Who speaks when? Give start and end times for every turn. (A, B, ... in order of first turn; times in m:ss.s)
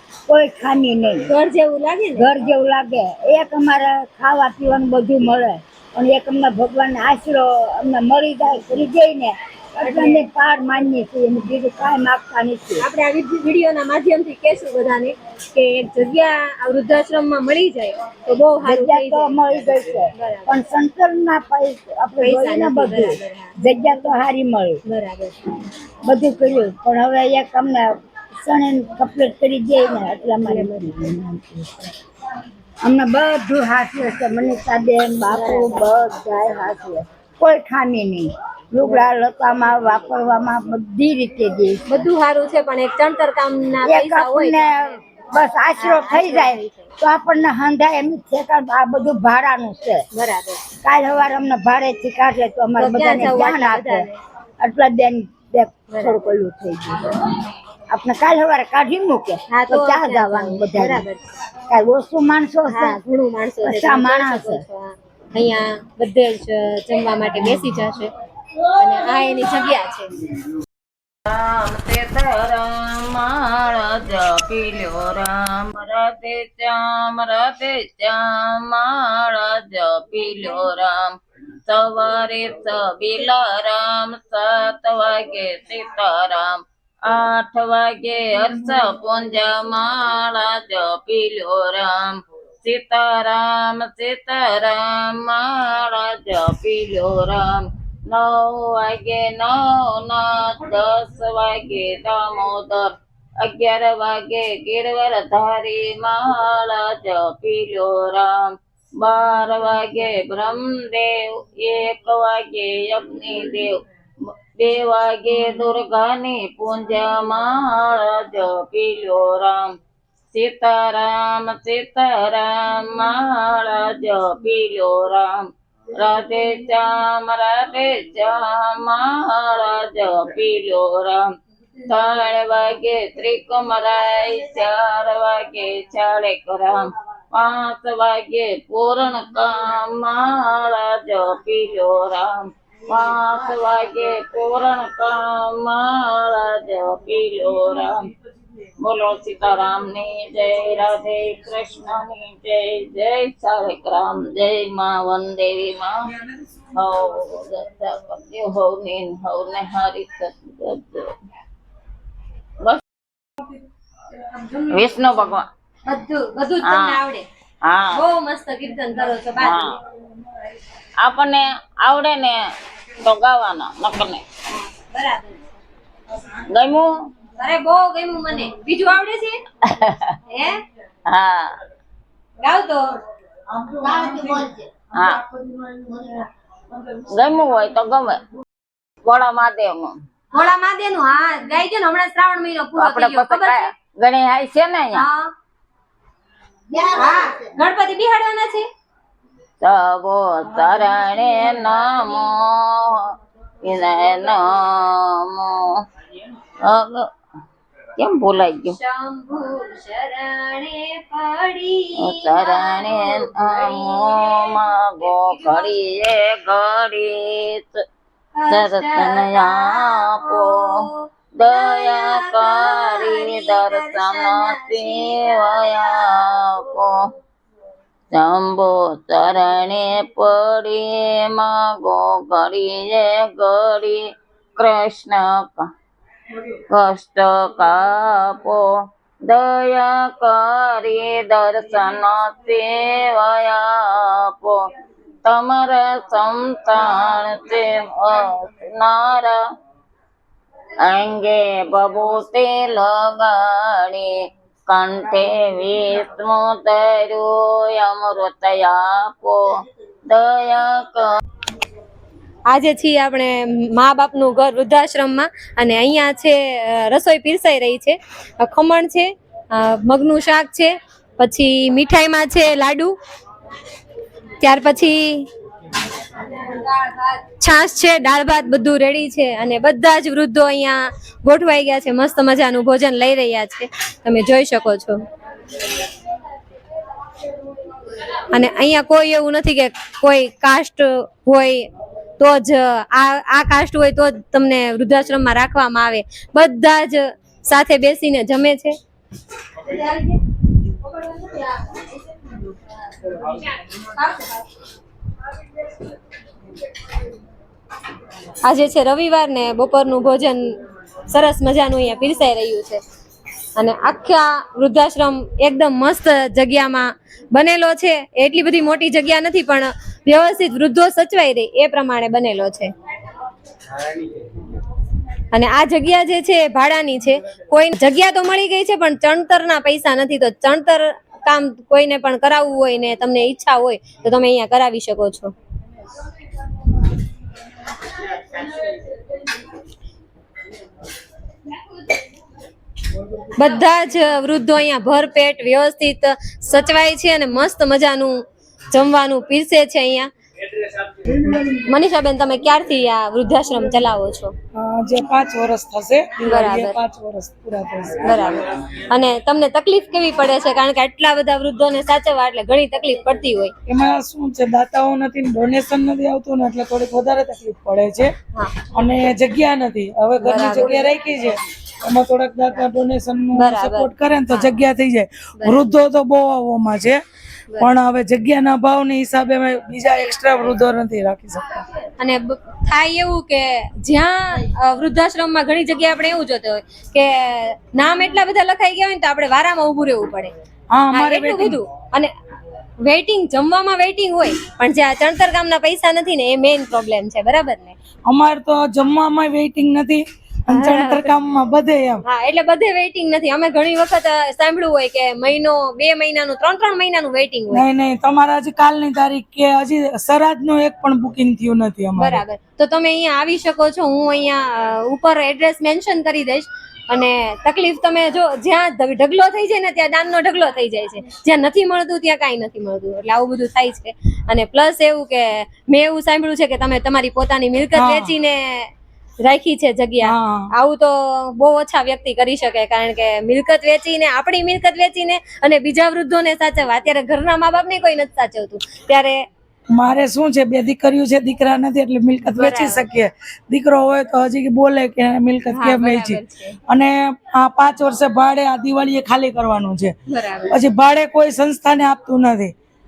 0:00.3-0:01.2 A
0:01.3-0:02.3 B
0:02.2-0:12.8 A
0:09.8-0:10.2 B
0:12.8-0:19.4 B
0:18.6-0:24.8 A
0:20.1-0:20.6 B
0:22.2-0:23.6 B
0:24.8-0:25.4 B
0:26.0-0:31.9 A
0:30.4-0:30.9 B
0:32.8-0:42.0 A
0:35.3-0:35.8 B
0:41.9-0:44.7 B
0:43.8-0:50.0 A
0:45.8-0:46.9 B
0:50.1-0:50.6 B
0:50.8-0:54.1 A
0:52.8-0:54.2 B
0:54.6-0:57.3 A
0:55.9-0:56.2 B
0:57.9-1:01.0 A
0:59.5-1:01.3 B
1:01.7-1:03.0 A
1:02.7-1:08.1 B
1:03.6-1:04.6 A
1:08.7-1:10.1 B
1:11.2-1:21.1 C
1:21.6-1:48.4 C
1:49.0-1:53.7 C
1:54.6-1:59.7 C
2:00.3-2:05.4 C
2:06.0-2:11.2 C
2:11.8-2:28.0 C
2:28.8-2:36.0 C
2:36.7-2:41.1 C
2:44.5-2:45.4 C
2:45.9-2:47.2 B
2:46.7-2:47.0 C
2:47.6-2:47.9 C
2:47.9-2:49.7 B
2:49.4-2:49.7 C
2:51.0-2:52.4 C
2:53.0-2:54.2 C
2:54.5-2:55.4 B
2:56.5-2:56.9 C
2:57.4-2:59.4 B
2:59.7-3:00.1 C
3:00.3-3:00.6 B
3:01.1-3:01.5 C
3:02.4-3:02.8 B
3:03.6-3:04.6 A
3:04.9-3:05.2 C
3:07.0-3:08.2 C
3:09.0-3:09.9 C
3:10.3-3:13.6 B
3:12.8-3:15.0 C
3:14.9-3:15.3 B
3:16.8-3:18.7 B
3:19.6-3:23.1 C
3:23.6-3:25.7 C
3:26.6-3:27.1 C
3:28.0-3:28.8 C
3:28.7-3:35.8 B
3:32.0-3:37.8 C
3:38.4-3:46.6 B
3:38.5-3:40.8 C
3:41.4-3:47.0 C
3:48.1-3:54.0 C
3:54.6-3:55.6 C
3:56.5-3:58.7 C
3:59.3-4:04.6 C
4:05.2-4:09.4 C
4:10.8-4:14.1 C
4:14.7-4:19.5 C
4:20.1-4:21.1 C
4:22.5-4:32.9 B
4:34.4-4:35.3 B
4:36.2-4:45.0 B
4:48.3-4:51.7 B
4:52.2-4:58.8 B
4:59.6-5:00.2 B
5:01.0-5:01.9 B
5:03.1-5:04.4 B
5:08.4-5:10.6 B
5:11.1-5:12.8 B
5:13.6-5:22.7 B
5:25.3-5:35.3 B
5:43.3-5:50.1 B
5:51.4-5:54.3 B
5:54.6-5:58.4 D
5:56.3-5:56.8 B
5:58.0-6:03.5 B
6:03.7-6:08.1 D
6:08.3-6:08.6 B
6:08.7-6:17.0 D
6:10.2-6:10.9 B
6:13.3-6:14.6 B
6:15.4-6:15.7 B
6:17.6-6:21.6 D
6:22.0-6:30.3 B
6:30.7-6:31.6 D
6:30.9-6:32.1 B
6:32.8-6:37.8 B
6:38.1-6:42.0 D
6:40.5-6:41.1 B
6:42.0-6:47.6 B
6:47.5-6:52.2 D
6:52.0-7:08.7 B
7:07.7-7:08.1 D
7:09.2-7:19.2 B
7:10.0-7:10.5 D
7:19.7-7:29.9 D
7:22.3-7:22.8 B
7:25.5-7:26.6 B
7:30.1-7:30.6 B
7:30.5-7:32.5 D